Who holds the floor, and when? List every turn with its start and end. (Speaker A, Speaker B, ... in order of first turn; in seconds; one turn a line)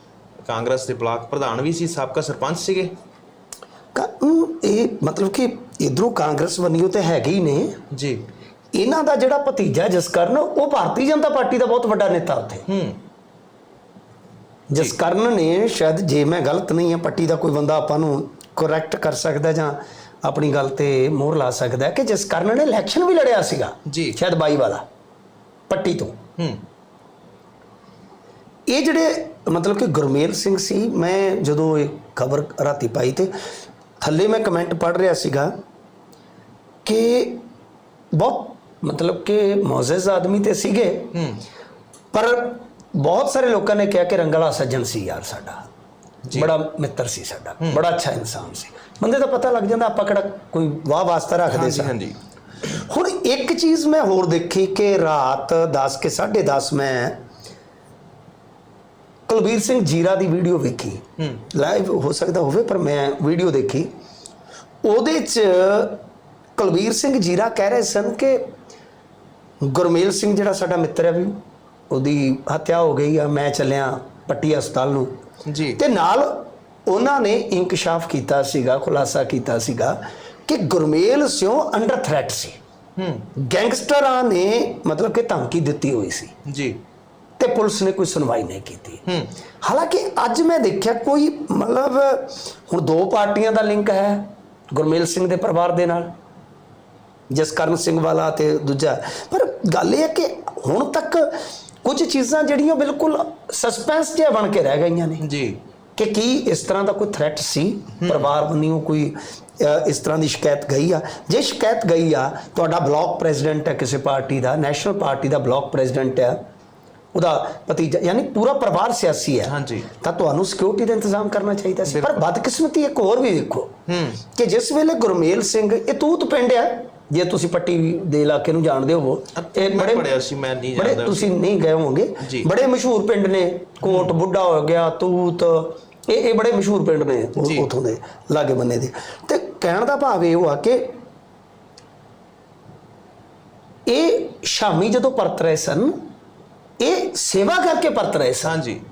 Speaker A: 0.5-2.9
Speaker B: 3.9-7.8
Speaker A: 7.9-8.2
Speaker B: 8.7-12.7
Speaker A: 12.7-13.0
Speaker B: 14.7-24.8
Speaker A: 23.9-24.2
Speaker B: 25.7-26.2
Speaker B: 28.7-33.3
Speaker B: 34.0-35.5
Speaker B: 36.9-37.4
Speaker B: 38.1-41.1
Speaker A: 41.1-41.4
Speaker B: 42.1-45.7
Speaker A: 46.2-46.5
Speaker B: 46.3-51.9
Speaker A: 51.5-52.2
Speaker B: 52.6-57.2
Speaker B: 59.3-63.9
Speaker A: 61.2-61.4
Speaker B: 64.8-66.0
Speaker B: 66.6-68.5
Speaker B: 69.6-71.4
Speaker B: 71.9-75.1
Speaker A: 75.5-75.8
Speaker B: 75.8-82.6
Speaker A: 83.0-83.3
Speaker B: 83.4-86.3
Speaker A: 86.5-86.8
Speaker B: 87.4-89.0
Speaker B: 89.6-96.1
Speaker B: 97.3-105.2
Speaker A: 105.2-105.6
Speaker B: 106.0-116.4
Speaker A: 108.0-108.3
Speaker B: 117.1-123.7
Speaker A: 119.5-119.9
Speaker A: 121.9-122.2
Speaker A: 123.9-124.2
Speaker B: 124.3-130.1
Speaker A: 129.4-131.3
Speaker B: 130.8-140.8
Speaker A: 132.2-132.5
Speaker A: 133.8-134.1
Speaker A: 137.4-137.7
Speaker B: 143.9-146.0
Speaker B: 146.8-148.6
Speaker A: 148.4-148.8